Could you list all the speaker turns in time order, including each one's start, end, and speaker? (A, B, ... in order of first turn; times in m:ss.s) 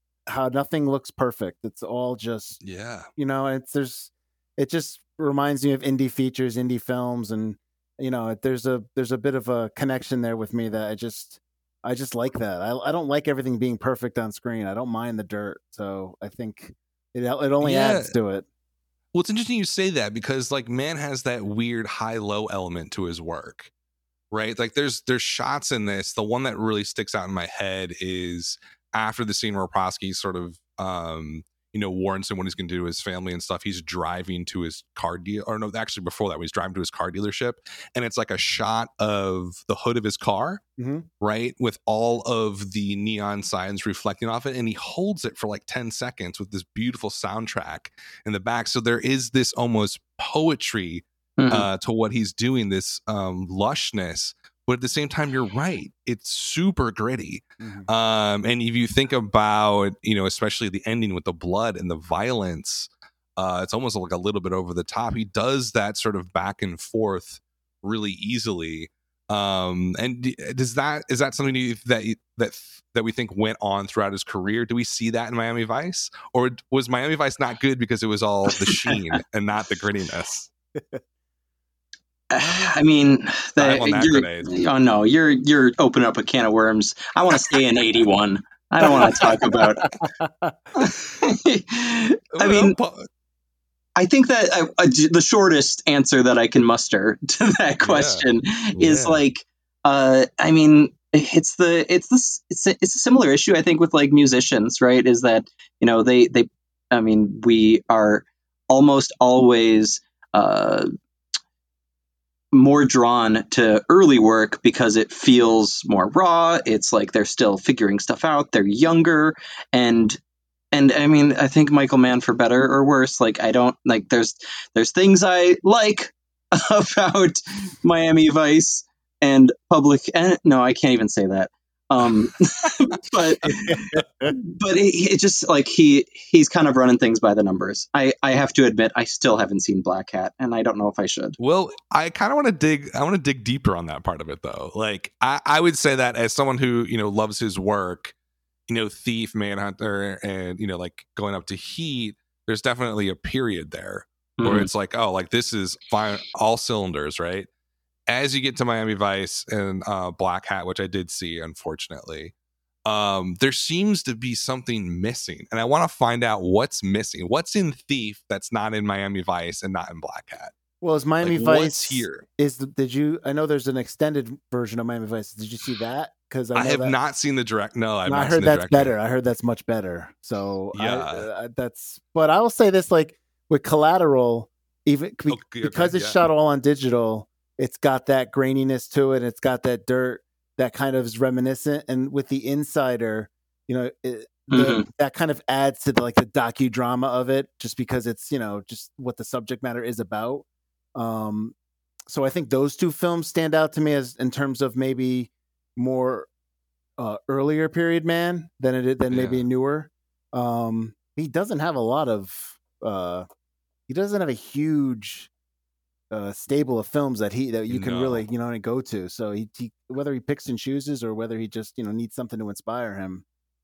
0:00.3-0:02.6 A
0:02.6-0:03.1 B
0:03.2-0:18.4 A
0:17.6-0:18.1 B
0:19.1-0:23.7 B
0:24.3-0:40.6 B
0:40.8-0:41.0 A
0:41.2-1:20.5 B
0:51.4-0:51.7 C
0:57.6-0:57.9 A
1:18.6-1:19.0 C
1:20.8-1:21.0 A
1:22.3-1:29.9 C
1:23.6-1:24.6 B
1:28.8-1:29.8 B
1:30.0-1:30.6 A
1:30.8-1:32.8 C
1:32.4-1:33.1 B
1:34.0-1:50.9 C
1:37.8-1:39.2 B
1:52.5-2:00.2 C
2:00.7-2:21.4 C
2:13.7-2:14.3 A
2:21.4-2:28.1 B
2:28.7-2:37.5 B
2:34.4-2:34.7 C
2:38.1-2:42.3 B
2:42.8-2:50.5 B
2:50.8-2:56.9 A
2:51.2-2:52.2 B
2:56.5-2:58.9 B
2:58.0-3:21.5 A
3:00.7-3:01.3 B
3:05.3-3:06.2 B
3:14.5-3:14.9 C
3:22.1-3:26.3 A
3:27.0-3:33.3 A
3:29.1-3:29.4 B
3:33.9-3:35.3 A
3:36.1-3:43.2 A
3:37.7-3:38.2 B